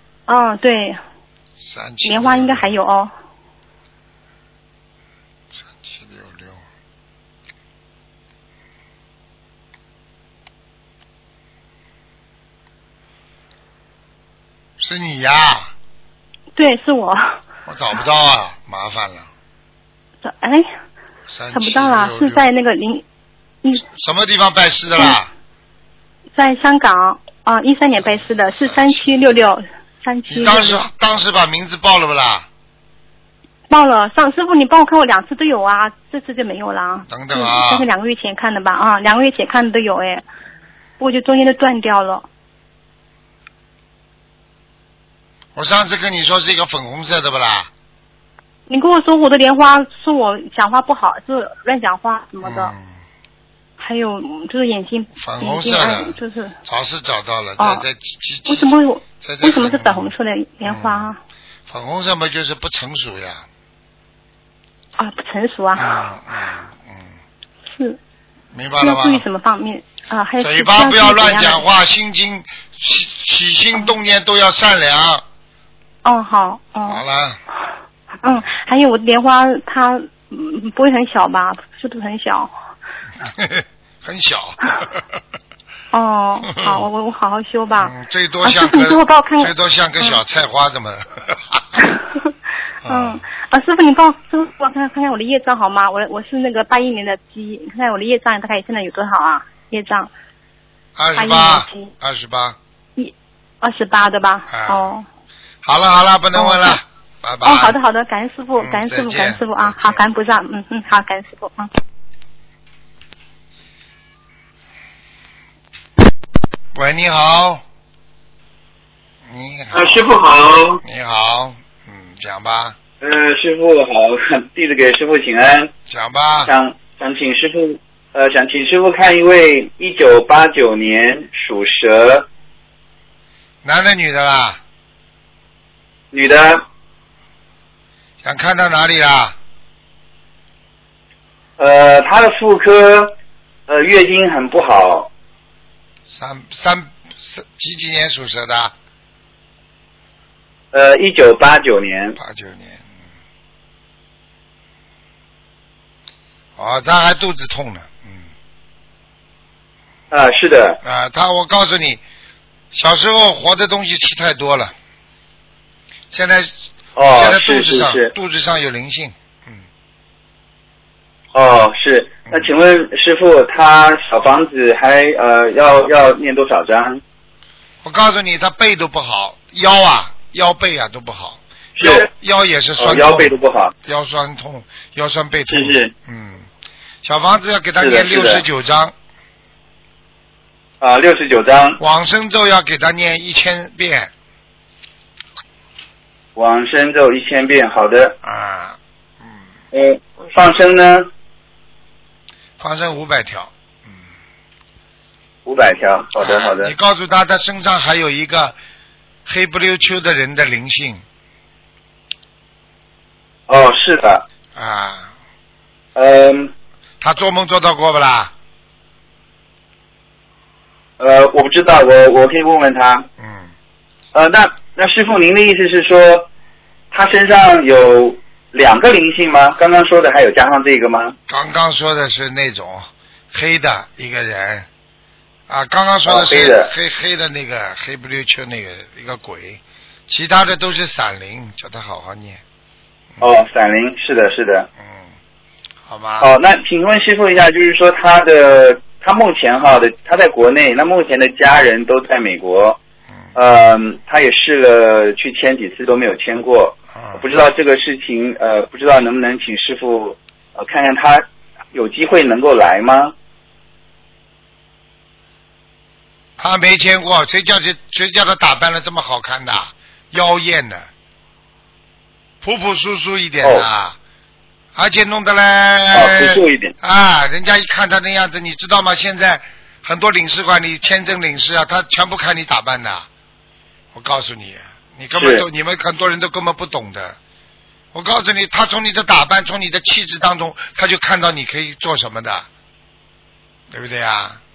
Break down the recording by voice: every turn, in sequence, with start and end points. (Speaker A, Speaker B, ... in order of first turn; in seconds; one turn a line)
Speaker A: 0.3-1.0
Speaker B: 1.6-2.8
Speaker A: 2.0-3.1
Speaker B: 5.5-6.6
Speaker B: 14.8-15.7
Speaker A: 16.6-17.4
Speaker B: 17.7-19.3
Speaker A: 20.2-20.7
Speaker B: 21.3-22.5
Speaker A: 21.5-23.0
Speaker B: 23.8-25.3
Speaker A: 26.4-30.9
Speaker B: 28.1-29.5
Speaker B: 30.3-32.5
Speaker A: 33.7-40.2
Speaker B: 37.1-37.9
Speaker A: 41.0-42.3
Speaker B: 45.5-47.7
Speaker A: 48.7-52.7
Speaker B: 52.4-52.9
Speaker A: 53.8-56.6
Speaker B: 55.2-60.1
Speaker A: 57.6-57.9
Speaker A: 58.5-61.2
Speaker B: 60.6-61.1
Speaker B: 61.7-63.5
Speaker A: 65.0-66.0
Speaker B: 65.8-67.2
Speaker A: 67.7-68.0
Speaker B: 68.5-69.2
Speaker A: 68.8-71.7
Speaker B: 70.4-75.2
Speaker A: 76.0-77.0
Speaker B: 76.9-77.4
Speaker A: 78.2-82.5
Speaker B: 83.2-85.0
Speaker A: 85.9-90.2
Speaker B: 86.5-86.9
Speaker B: 87.8-91.8
Speaker A: 91.8-92.3
Speaker B: 92.8-93.2
Speaker A: 92.9-100.1
Speaker B: 101.0-102.6
Speaker A: 101.2-101.9
Speaker A: 103.0-105.0
Speaker B: 104.5-104.9
Speaker B: 105.6-107.8
Speaker A: 106.3-106.8
Speaker A: 107.4-111.7
Speaker B: 108.6-110.0
Speaker B: 116.7-117.6
Speaker B: 119.2-120.2
Speaker C: 119.7-120.8
Speaker B: 120.8-122.8
Speaker C: 123.0-125.7
Speaker B: 125.9-126.5
Speaker C: 126.5-132.3
Speaker B: 133.6-134.6
Speaker C: 136.1-136.6
Speaker B: 138.2-139.4
Speaker C: 141.6-143.2
Speaker C: 143.7-145.1
Speaker B: 146.1-148.7
Speaker C: 150.7-152.2
Speaker B: 152.2-152.9
Speaker B: 156.6-158.3
Speaker C: 160.1-160.8
Speaker B: 160.8-162.0
Speaker B: 162.7-164.8
Speaker B: 166.1-169.6
Speaker C: 167.0-168.1
Speaker C: 171.3-177.0
Speaker B: 177.8-186.5
Speaker C: 181.8-182.1
Speaker C: 182.8-183.7
Speaker C: 185.5-185.9
Speaker B: 187.0-188.9
Speaker C: 187.8-188.4
Speaker C: 190.8-191.8
Speaker B: 191.8-194.1
Speaker C: 196.4-198.2
Speaker B: 198.2-199.4
Speaker C: 199.7-201.1
Speaker B: 202.6-204.0
Speaker C: 205.5-206.7
Speaker B: 206.2-208.6
Speaker B: 209.2-211.0
Speaker C: 213.5-214.2
Speaker B: 214.6-215.1
Speaker C: 215.9-216.5
Speaker B: 217.0-218.3
Speaker C: 221.0-223.1
Speaker B: 223.2-223.5
Speaker C: 224.1-226.3
Speaker C: 226.9-231.2
Speaker B: 231.3-234.7
Speaker B: 235.5-242.4
Speaker C: 236.1-236.7
Speaker C: 243.2-244.7
Speaker B: 244.8-245.1
Speaker B: 245.9-246.3
Speaker C: 246.2-252.8
Speaker C: 253.4-263.1
Speaker B: 256.9-257.2
Speaker B: 266.4-270.9
Speaker B: 272.4-274.0
Speaker B: 274.8-283.1
Speaker C: 275.9-276.7
Speaker B: 283.9-287.2
Speaker C: 285.2-285.4
Speaker B: 287.9-292.5
Speaker B: 293.7-294.4